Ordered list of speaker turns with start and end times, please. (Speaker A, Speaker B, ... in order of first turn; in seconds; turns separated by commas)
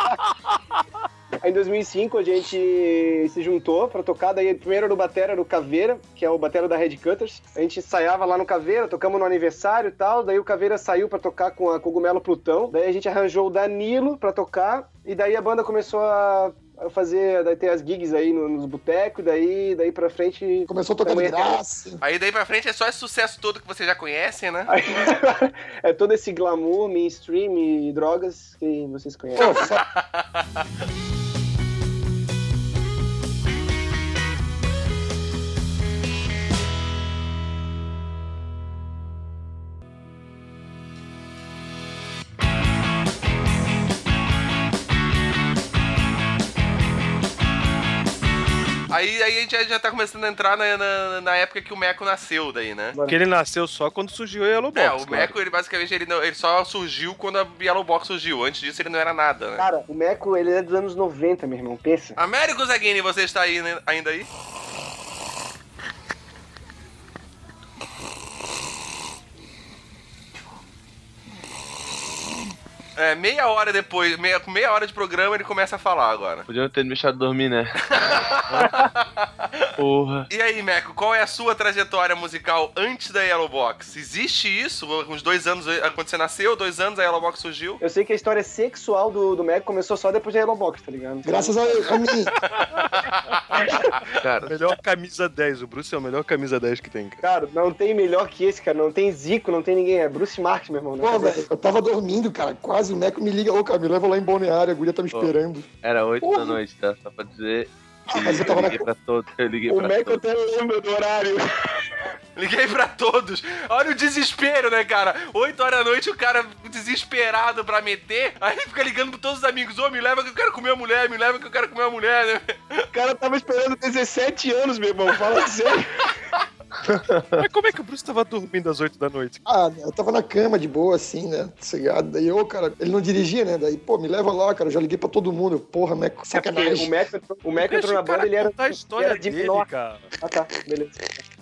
Speaker A: 1.4-21.6, Speaker B: 20.7-22.0, Speaker C: 22.0-24.7, Speaker A: 24.7-29.7, Speaker B: 29.4-29.8, Speaker C: 29.4-30.2, Speaker C: 48.9-53.0, Speaker D: 53.0-55.3, Speaker C: 54.7-59.7, Speaker A: 59.6-62.2, Speaker C: 62.2-64.3, Speaker C: 73.0-76.5, Speaker E: 76.5-77.8, Speaker C: 78.0-79.7, Speaker D: 78.5-78.8, Speaker E: 79.8-80.3, Speaker C: 80.3-87.8, Speaker A: 87.8-92.0, Speaker B: 91.2-92.3, Speaker C: 92.4-93.7, Speaker A: 93.5-93.9, Speaker E: 94.2-94.6, Speaker D: 94.5-97.2, Speaker A: 97.2-101.4, Speaker B: 101.0-105.7, Speaker E: 105.1-110.2, Speaker B: 108.1-108.9, Speaker A: 109.7-111.9, Speaker C: 112.4-122.8, Speaker A: 122.9-126.1, Speaker E: 126.9-127.4, Speaker D: 127.4-129.4, Speaker B: 129.5-136.9, Speaker A: 136.3-141.2, Speaker D: 137.6-140.1